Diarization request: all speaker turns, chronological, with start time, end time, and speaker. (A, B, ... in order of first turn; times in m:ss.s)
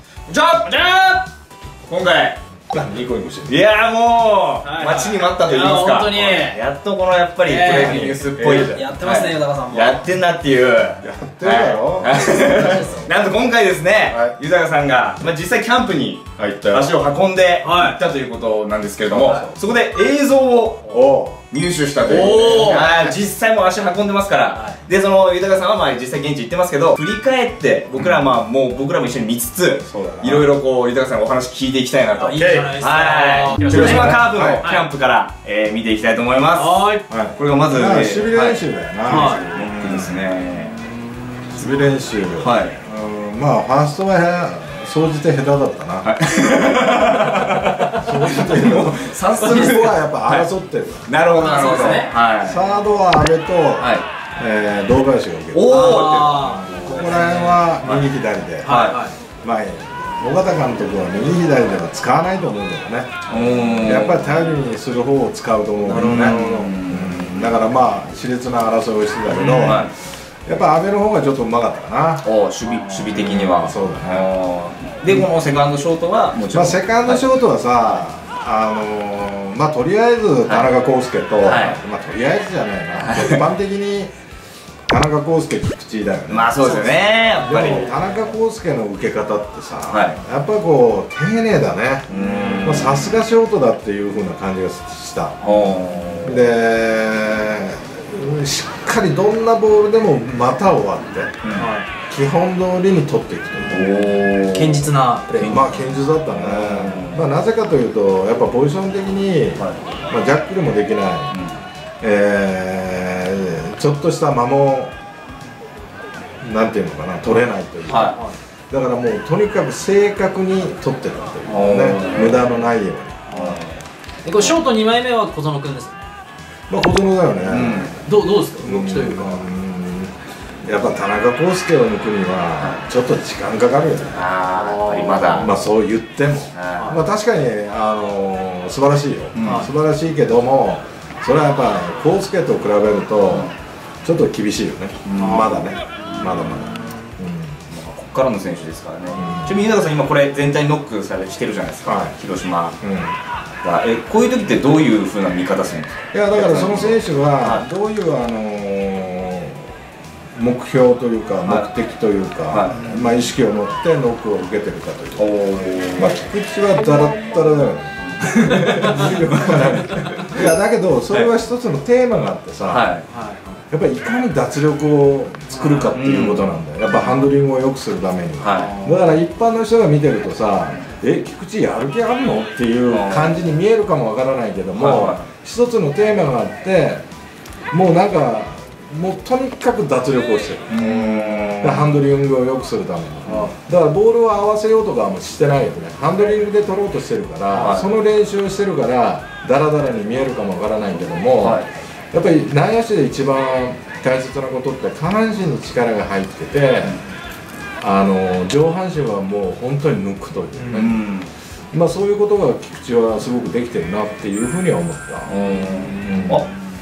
0:00.3-0:01.1 A
0:00.6-0:01.2 B
0:01.9-0:02.4 A
0:02.7-0:03.6 C
0:03.4-0:40.8 A
0:04.6-0:06.6 B
0:07.4-0:10.1 B
0:07.6-0:08.7 C
0:11.0-0:13.1 C
0:12.1-0:13.1 B
0:14.1-0:14.4 C
0:16.4-0:16.9 C
0:17.6-0:18.0 B
0:19.1-0:19.5 C
0:19.2-0:19.5 B
0:20.9-0:21.4 C
0:22.0-0:22.9 B
0:24.5-0:24.8 B
0:28.0-0:28.4 C
0:29.8-0:30.5 C
0:32.1-0:34.8 B
0:32.4-0:32.7 C
0:33.6-0:34.6 C
0:36.5-0:37.0 B
0:37.1-0:40.2 C
0:39.1-0:39.4 B
0:40.5-0:41.9 B
0:41.5-0:46.1 C
0:42.4-0:42.8 A
0:46.0-0:50.5 A
0:47.6-0:48.0 B
0:47.9-0:51.1 C
0:49.4-0:49.9 B
0:51.1-0:52.6 A
0:51.3-0:52.2 B
0:52.4-0:58.8 C
0:53.8-0:54.0 A
0:55.5-0:56.7 A
0:55.7-0:57.6 B
0:58.6-0:59.2 B
0:58.6-0:59.0 A
0:59.4-1:12.2 C
1:03.3-1:04.5 A
1:05.8-1:06.6 B
1:05.9-1:07.6 A
1:09.3-1:09.9 A
1:12.2-1:17.2 A
1:12.6-1:13.1 B
1:13.1-1:14.3 C
1:16.5-1:24.1 C
1:20.4-1:20.7 A
1:21.4-1:21.8 A
1:22.9-1:23.4 A
1:24.9-1:26.8 C
1:26.3-1:27.9 A
1:26.6-1:28.0 B
1:27.4-1:32.1 C
1:29.9-1:30.2 A
1:32.1-1:33.2 A
1:32.1-1:32.8 B
1:32.6-1:35.4 C
1:35.4-1:36.5 A
1:36.2-1:41.4 C
1:41.4-1:41.7 A
1:41.5-1:41.9 B
1:42.1-1:44.1 C
1:43.6-1:44.9 A
1:44.5-1:45.9 B
1:45.4-1:51.3 C
1:46.3-1:47.3 A
1:51.3-1:51.6 A
1:52.0-1:54.9 C
1:56.4-1:58.1 C
1:57.9-1:58.4 B
1:57.9-1:58.2 A
1:58.7-2:03.2 C
2:01.5-2:02.4 A
2:03.3-2:03.6 B
2:03.3-2:03.8 A
2:04.2-2:06.1 B
2:04.4-2:04.6 A
2:06.7-2:08.1 C
2:07.4-2:08.0 A
2:08.0-2:09.4 B
2:08.6-2:14.2 C
2:12.6-2:12.8 A
2:14.1-2:15.5 A
2:14.5-2:15.5 B
2:15.3-2:23.5 C
2:16.5-2:17.0 A
2:16.8-2:17.1 B
2:19.3-2:19.6 A
2:19.4-2:19.7 B
2:23.2-2:23.5 A
2:24.0-2:27.6 C
2:25.0-2:25.5 A
2:25.2-2:27.1 B
2:26.3-2:26.6 A
2:27.7-2:32.8 A
2:29.1-2:29.6 C
2:31.8-2:32.2 C
2:32.8-2:33.2 C
2:33.6-2:37.6 A
2:36.1-2:39.7 C
2:40.3-2:45.3 C
2:42.5-2:42.9 A
2:45.2-2:46.2 A
2:46.0-2:52.9 C
2:48.0-2:50.5 A
2:52.7-2:53.1 A
2:53.1-2:53.6 B
2:53.7-3:07.0 C
2:55.5-2:55.9 B
2:55.9-2:56.5 A
2:56.9-2:57.3 B
2:58.4-2:58.7 A
2:58.5-2:59.2 B
3:02.9-3:03.4 A
3:04.7-3:05.3 A
3:07.7-3:27.0 C
3:10.7-3:12.0 A
3:13.2-3:13.5 B
3:17.5-3:17.9 A
3:21.4-3:21.7 A
3:27.8-3:31.0 C
3:30.7-3:31.3 A
3:31.7-3:35.3 C
3:35.2-3:36.5 A
3:35.5-3:36.7 B
3:36.0-3:36.4 C